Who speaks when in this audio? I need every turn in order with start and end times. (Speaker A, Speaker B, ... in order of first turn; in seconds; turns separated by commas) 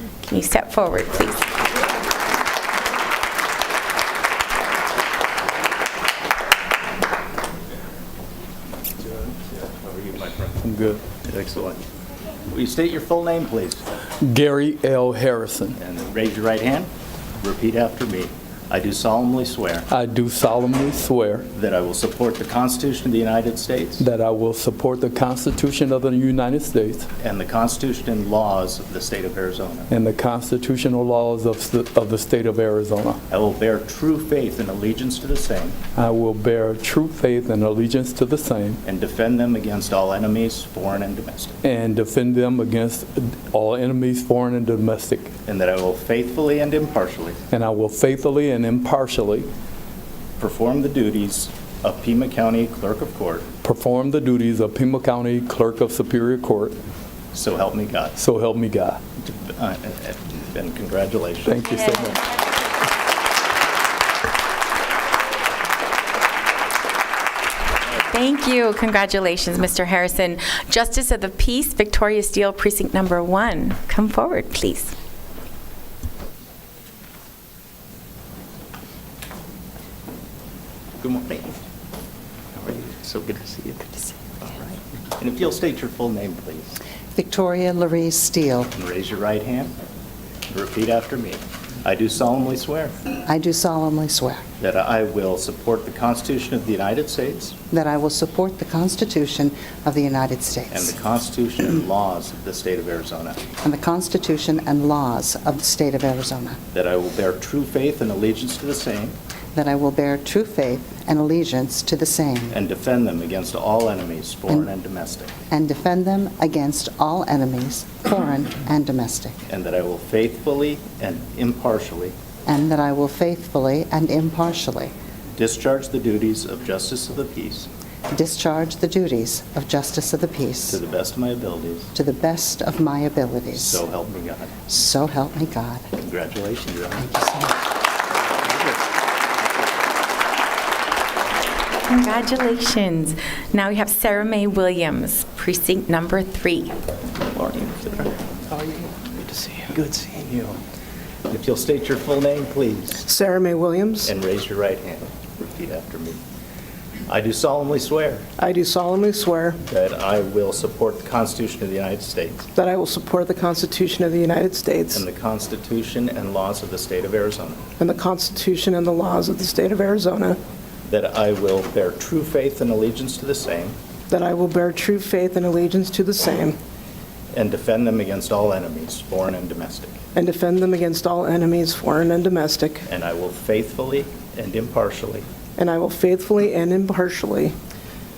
Speaker A: 0.2-1.4, Speaker B: 9.0-10.6, Speaker C: 10.6-11.0, Speaker B: 11.2-11.8, Speaker B: 12.5-13.8, Speaker C: 14.2-15.8, Speaker B: 15.8-19.9, Speaker C: 19.9-21.5, Speaker B: 21.5-24.1, Speaker C: 24.0-27.1, Speaker B: 27.2-29.9, Speaker C: 29.9-33.2, Speaker B: 33.3-35.8, Speaker C: 36.0-38.8, Speaker B: 38.8-41.5, Speaker C: 41.6-45.3, Speaker B: 45.5-47.4, Speaker C: 47.5-49.5, Speaker B: 50.4-53.5, Speaker C: 53.6-56.8, Speaker B: 57.3-58.1, Speaker C: 58.2-59.0, Speaker B: 59.2-61.7, Speaker C: 61.5-62.2, Speaker A: 61.8-62.1, Speaker A: 68.0-74.9, Speaker B: 81.0-81.6, Speaker B: 82.5-86.8, Speaker D: 87.1-88.7, Speaker B: 88.7-89.7, Speaker B: 90.5-93.0, Speaker D: 93.2-94.4, Speaker B: 94.6-97.5, Speaker D: 97.7-100.9, Speaker B: 100.7-103.4, Speaker D: 103.6-106.6, Speaker B: 106.7-109.2, Speaker D: 109.5-112.6, Speaker B: 112.5-115.3, Speaker D: 115.5-119.4, Speaker B: 119.5-122.1, Speaker D: 122.5-124.9, Speaker B: 125.3-127.7, Speaker D: 128.1-130.8, Speaker B: 130.7-131.9, Speaker D: 131.9-133.8, Speaker B: 133.5-134.5, Speaker D: 134.7-135.8, Speaker B: 136.0-137.1, Speaker D: 137.0-137.6, Speaker A: 141.9-146.7, Speaker B: 147.3-148.7, Speaker B: 149.6-150.6, Speaker B: 151.3-153.1, Speaker E: 153.1-154.1, Speaker B: 154.0-156.2, Speaker B: 157.1-158.3, Speaker E: 158.4-159.6, Speaker B: 159.7-162.5, Speaker E: 162.6-165.0, Speaker B: 164.9-167.6, Speaker E: 167.8-170.4, Speaker B: 170.8-173.8, Speaker E: 174.1-176.6, Speaker B: 177.3-180.0, Speaker E: 180.1-182.8, Speaker B: 182.9-185.2, Speaker E: 185.6-187.5